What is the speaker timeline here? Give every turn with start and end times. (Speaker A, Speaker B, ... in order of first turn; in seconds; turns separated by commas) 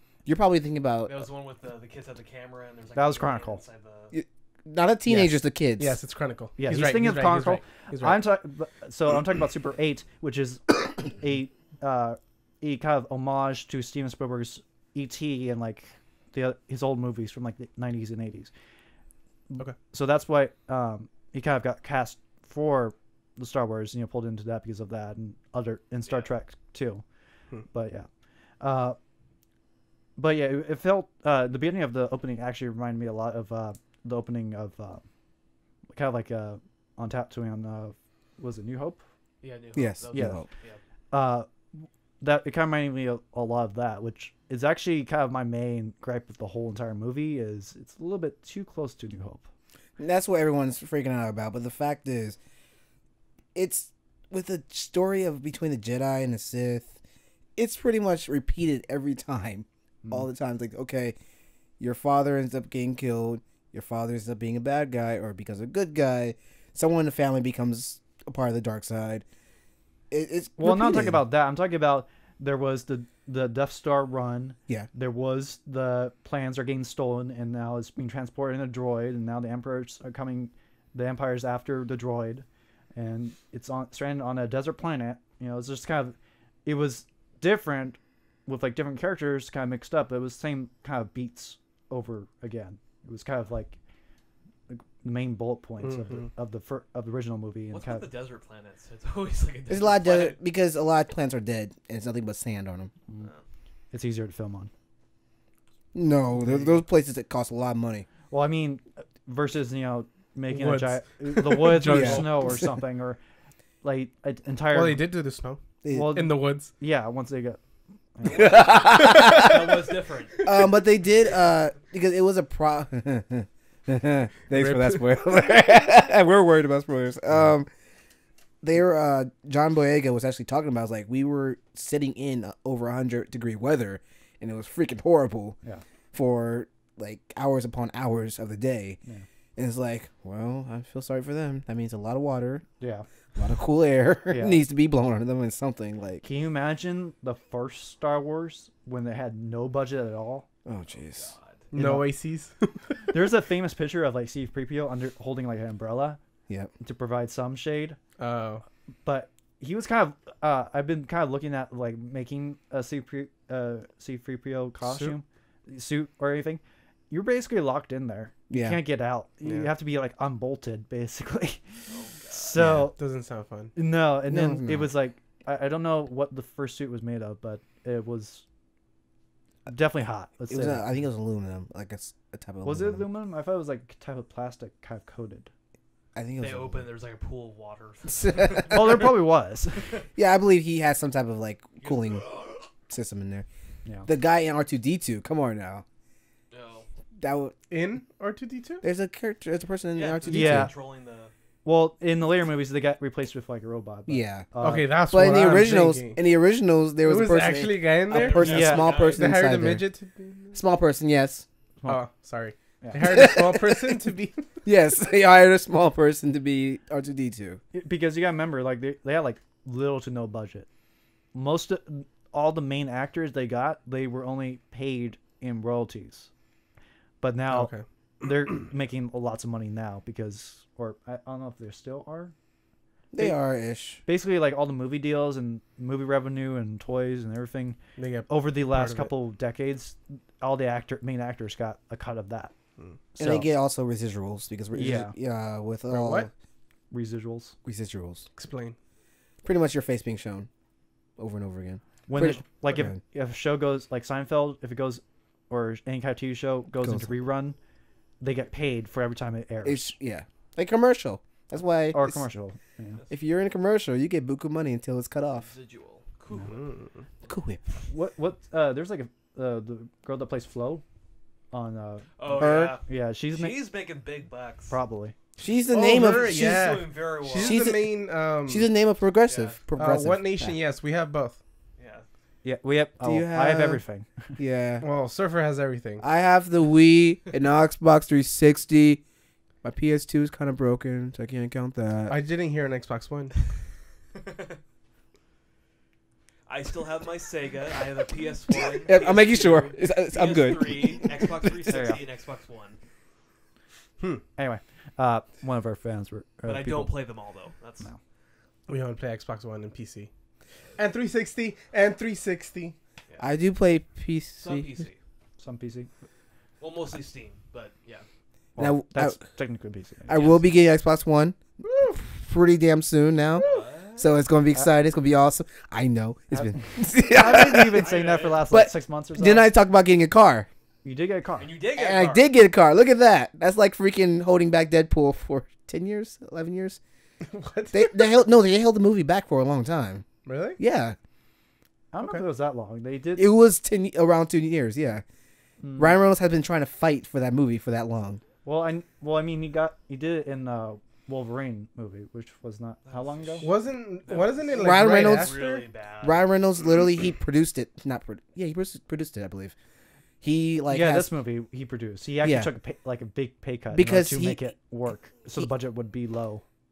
Speaker A: 0.3-1.2, Speaker B: 1.1-4.1, Speaker C: 3.0-3.6, Speaker A: 4.1-6.0, Speaker C: 5.1-5.3, Speaker D: 5.8-8.2, Speaker C: 6.6-18.5, Speaker C: 19.5-27.0, Speaker C: 27.7-28.1, Speaker C: 28.6-29.0, Speaker C: 30.2-35.0, Speaker C: 35.9-39.0, Speaker B: 39.4-40.8, Speaker A: 39.8-40.5, Speaker C: 40.1-40.4, Speaker C: 41.1-49.5, Speaker A: 50.0-52.4, Speaker A: 53.5-57.0, Speaker A: 57.6-61.1, Speaker A: 61.8-69.2, Speaker A: 70.1-71.2, Speaker C: 70.6-93.8, Speaker C: 94.7-98.1, Speaker D: 95.8-96.3, Speaker B: 97.7-100.4, Speaker A: 99.7-102.9, Speaker C: 103.9-104.7, Speaker A: 105.9-108.1, Speaker D: 106.5-106.8, Speaker C: 108.3-113.2, Speaker D: 110.5-112.6, Speaker A: 111.9-112.4, Speaker C: 113.8-115.0, Speaker D: 114.7-116.7, Speaker A: 115.8-116.2, Speaker C: 115.9-117.6, Speaker C: 118.2-118.6, Speaker A: 118.3-119.7, Speaker B: 118.4-120.6, Speaker D: 119.1-119.6, Speaker A: 120.4-127.7, Speaker D: 124.5-125.1, Speaker A: 128.6-135.6, Speaker A: 136.1-139.0, Speaker A: 139.6-142.7, Speaker C: 142.8-143.1, Speaker A: 143.4-146.2, Speaker C: 144.3-144.6, Speaker C: 146.2-150.5, Speaker A: 150.7-151.3, Speaker B: 150.9-151.7, Speaker D: 151.7-153.2, Speaker C: 151.7-152.1, Speaker C: 153.1-156.2, Speaker C: 156.8-158.0, Speaker D: 158.2-158.6, Speaker C: 159.1-171.6, Speaker D: 164.8-165.2, Speaker A: 168.5-168.8, Speaker D: 169.4-169.7, Speaker B: 171.9-172.5, Speaker C: 172.3-173.0, Speaker A: 172.6-172.9, Speaker D: 172.9-173.7, Speaker C: 173.8-178.4, Speaker A: 174.3-174.9, Speaker C: 179.7-180.9, Speaker A: 180.5-183.1, Speaker C: 182.6-185.5, Speaker A: 186.2-186.9, Speaker B: 186.4-189.0, Speaker A: 188.2-188.9, Speaker C: 188.7-190.0, Speaker A: 190.2-193.5, Speaker B: 191.8-192.6, Speaker A: 194.1-195.8, Speaker B: 196.5-196.9, Speaker A: 197.2-197.6, Speaker D: 197.7-198.8, Speaker A: 198.8-200.7, Speaker B: 199.9-201.3, Speaker C: 200.3-200.7, Speaker C: 201.7-205.4, Speaker A: 204.1-204.5, Speaker D: 204.6-206.2, Speaker A: 205.1-209.8, Speaker D: 207.0-210.6, Speaker B: 208.1-209.3, Speaker C: 208.4-208.9, Speaker A: 210.5-211.5, Speaker D: 211.9-214.5, Speaker A: 213.0-214.0, Speaker A: 214.7-217.6, Speaker C: 217.7-220.7, Speaker C: 221.3-226.3, Speaker C: 227.2-232.3, Speaker D: 227.5-227.8, Speaker A: 233.1-234.0, Speaker C: 234.1-242.5, Speaker D: 238.0-239.1, Speaker A: 243.2-246.3, Speaker C: 243.2-243.5, Speaker C: 244.7-245.1, Speaker D: 245.9-246.3, Speaker C: 246.9-247.6, Speaker A: 247.7-248.3, Speaker D: 248.3-248.8, Speaker A: 249.4-250.5, Speaker A: 251.2-253.0, Speaker C: 252.1-257.6, Speaker A: 256.8-257.1, Speaker C: 258.2-259.9, Speaker A: 259.6-262.3, Speaker C: 261.9-263.0, Speaker A: 263.1-265.5, Speaker B: 265.3-266.7, Speaker D: 266.4-267.1, Speaker A: 267.3-267.6, Speaker C: 267.9-270.8, Speaker C: 271.5-273.6, Speaker B: 272.2-274.7, Speaker A: 272.4-272.8, Speaker C: 274.7-275.1, Speaker A: 275.4-276.7, Speaker B: 275.7-277.7, Speaker D: 275.7-278.7, Speaker A: 277.3-277.9, Speaker A: 278.4-280.6, Speaker B: 279.3-279.6, Speaker D: 279.8-281.4, Speaker B: 281.8-282.1, Speaker C: 282.4-284.3, Speaker A: 283.0-283.8, Speaker A: 284.4-284.9, Speaker D: 284.8-286.1, Speaker A: 286.0-289.0, Speaker A: 289.6-292.2, Speaker D: 292.1-293.3, Speaker B: 294.1-294.6, Speaker B: 296.5-302.8, Speaker A: 298.7-301.7, Speaker C: 301.7-302.0, Speaker C: 304.4-306.9, Speaker B: 306.5-307.9, Speaker D: 308.7-310.1, Speaker D: 310.8-312.8, Speaker A: 313.2-314.7, Speaker B: 314.4-315.0, Speaker C: 315.4-315.9, Speaker B: 316.6-318.1, Speaker C: 318.6-320.4, Speaker A: 318.6-319.3, Speaker A: 320.1-327.9, Speaker B: 323.3-324.2, Speaker C: 326.3-329.5, Speaker B: 327.4-328.5, Speaker A: 328.5-330.5, Speaker C: 330.8-331.6, Speaker B: 331.4-332.2, Speaker A: 331.8-336.8, Speaker D: 337.2-338.1, Speaker A: 337.7-340.1, Speaker D: 340.2-340.6, Speaker A: 340.6-341.0, Speaker C: 341.9-343.3, Speaker A: 343.2-345.0, Speaker C: 345.6-346.0, Speaker A: 345.8-348.2, Speaker C: 348.4-353.5, Speaker B: 352.9-356.3, Speaker D: 353.4-355.5, Speaker A: 354.6-359.6, Speaker A: 360.2-361.1, Speaker C: 360.7-366.4, Speaker A: 362.2-362.5, Speaker A: 363.7-364.4